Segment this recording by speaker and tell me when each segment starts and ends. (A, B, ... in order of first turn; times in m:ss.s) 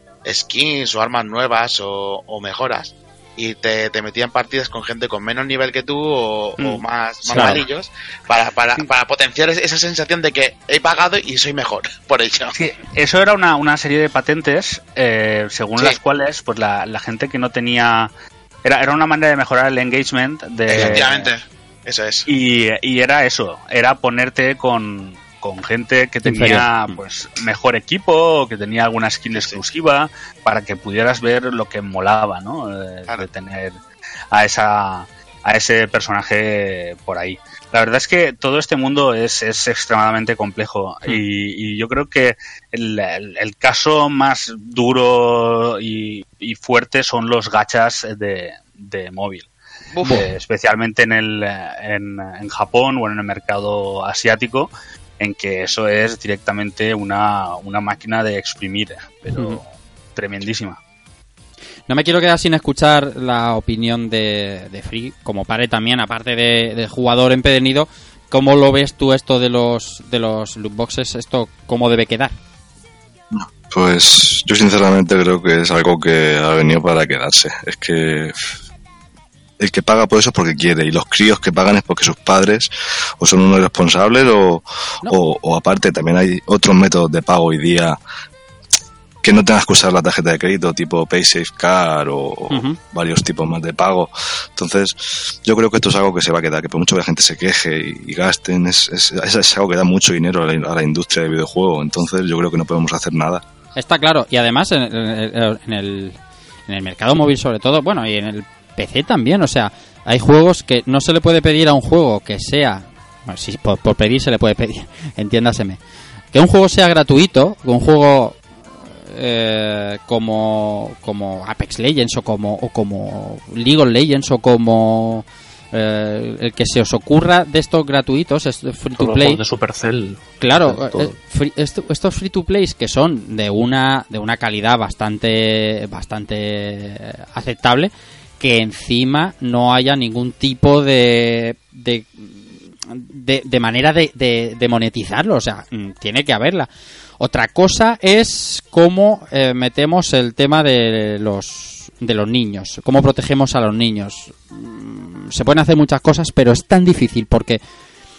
0:00.2-0:12.5 A
0:07.3-0:07.6 B
0:12.5-0:18.1 C
0:18.6-0:21.3 C
0:20.7-0:22.3 A
0:20.7-0:21.0 B
0:22.3-0:33.8 C
0:26.2-0:26.7 B
0:29.3-0:29.6 A
0:34.3-0:49.5 C
0:49.9-0:50.2 A
0:50.0-1:00.8 C
0:59.3-0:59.6 B
1:01.9-1:12.3 B
1:13.3-1:18.6 D
1:19.6-1:22.7 D
1:23.2-1:28.0 D
1:29.2-1:43.4 D
1:32.5-1:32.8 B
1:43.8-1:55.8 B
1:56.3-1:58.4 B
1:59.1-2:09.4 B
2:09.0-2:11.2 E
2:10.4-2:26.7 B
2:27.2-2:37.6 B